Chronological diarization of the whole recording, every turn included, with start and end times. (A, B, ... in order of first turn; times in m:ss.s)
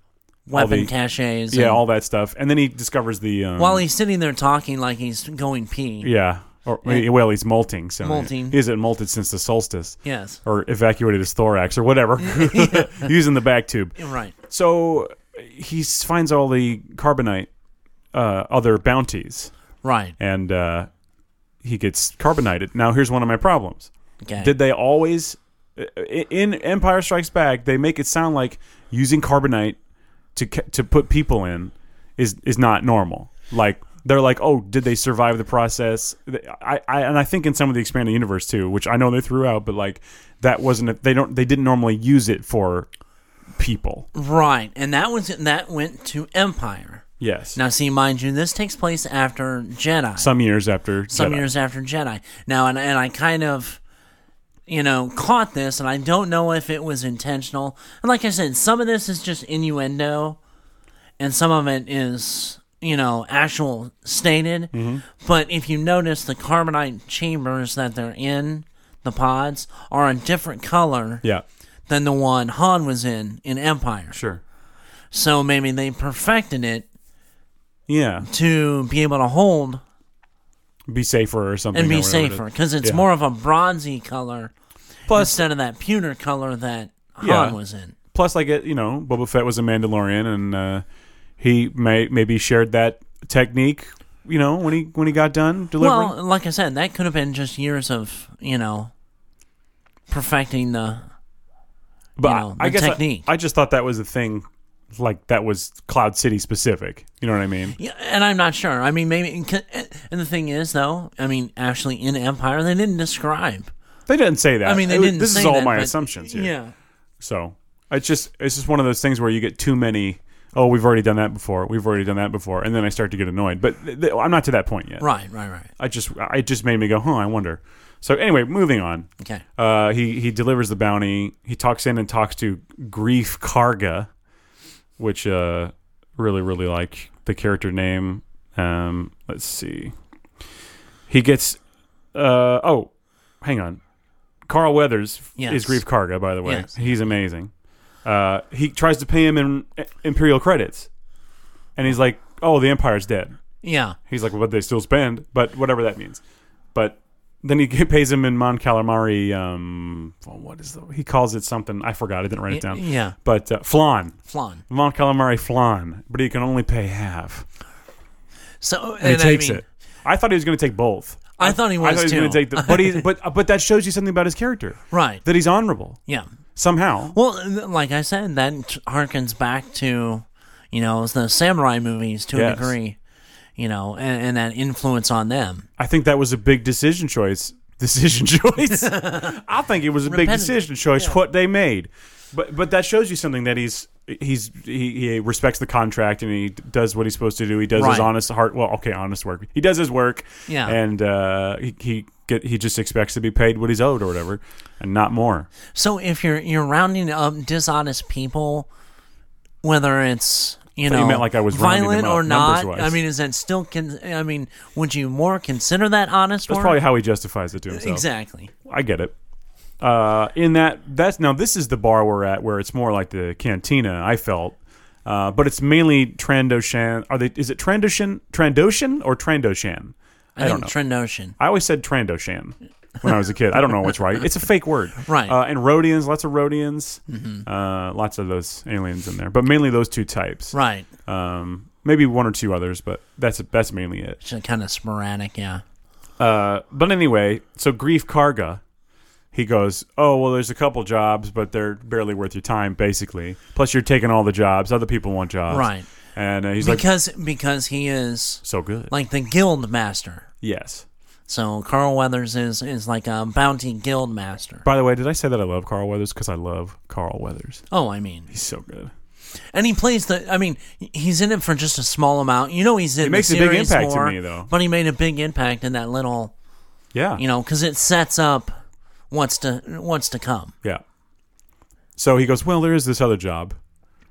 0:00.5-0:01.8 A
0:00.5-0:00.9 B
0:01.5-0:03.8 B
0:03.6-0:06.1 A
0:06.0-0:14.0 B
0:08.0-0:08.6 A
0:10.0-0:10.4 A
0:12.2-0:13.1 A
0:14.0-0:14.3 A
0:14.5-0:17.5 B
0:18.1-0:19.5 B
0:19.8-0:20.2 A
0:20.2-0:20.9 B
0:21.6-0:29.8 B
0:24.2-0:24.5 A
0:30.3-0:42.9 B
0:43.6-0:44.1 B
0:44.1-0:47.0 A
0:47.2-0:47.6 B
0:47.5-0:50.3 A
0:50.2-0:51.5 B
0:51.1-0:53.8 A
0:54.7-1:00.4 A
1:01.2-1:11.2 A
1:04.7-1:05.0 B
1:11.9-1:14.2 A
1:14.1-1:14.4 B
1:15.1-1:16.9 A
1:17.9-1:18.3 B
1:18.2-1:19.8 A
1:20.9-1:23.0 B
1:21.7-1:24.5 A
1:25.1-1:25.4 B
1:25.1-1:27.9 A
1:27.2-1:27.6 B
1:28.1-1:30.8 B
1:31.4-1:36.2 B
1:35.8-1:38.9 A
1:40.1-1:41.0 A
1:42.2-1:47.8 B
1:42.2-1:43.3 A
1:47.8-1:53.7 A
1:54.1-1:56.5 B
1:54.6-1:56.7 A
1:57.2-2:05.1 B
2:05.0-2:05.7 A
2:05.8-2:14.1 B
2:15.0-2:19.9 B
2:21.1-2:21.6 B
2:22.1-2:23.8 B
2:24.5-2:27.5 B
2:25.4-2:25.8 A
2:26.4-2:26.7 A
2:28.0-2:30.9 B
2:31.8-2:33.4 B
2:33.6-2:34.0 A
2:34.1-2:36.2 B
2:36.7-2:44.2 B
2:42.5-2:43.1 A
2:44.3-2:44.6 A
2:44.7-2:47.4 B
2:48.6-2:49.6 A
2:49.0-2:56.0 B
2:51.4-2:53.0 A
2:54.9-2:55.2 A
2:56.6-2:57.2 B
2:57.1-3:03.0 A
3:02.3-3:02.8 B
3:03.6-3:05.7 A
3:05.8-3:25.5 B
3:08.7-3:09.4 A
3:10.0-3:11.1 A
3:17.7-3:18.1 A
3:20.5-3:20.8 A
3:25.7-3:28.7 A
3:29.6-3:36.8 A
3:30.9-3:33.0 B
3:36.5-3:38.0 B
3:37.7-3:38.5 A
3:38.6-3:39.1 B
3:39.8-3:50.7 B
3:50.4-3:51.4 A
3:51.4-4:00.5 B
3:55.0-3:55.4 A
3:57.1-3:57.4 A
4:00.5-4:00.9 A
4:01.1-4:04.2 B
4:04.2-4:05.6 A
4:06.2-4:08.6 B
4:09.3-4:16.8 B
4:15.5-4:15.8 A
4:16.6-4:20.3 A
4:18.4-4:18.9 B
4:20.4-4:20.8 B
4:21.3-4:24.6 A
4:24.6-4:27.6 B
4:27.7-4:28.3 A
4:28.3-4:28.9 B
4:29.5-4:36.3 A
4:33.0-4:34.5 B
4:36.9-4:37.2 B
4:37.2-4:38.5 A
4:39.1-4:40.5 A
4:42.0-4:43.6 B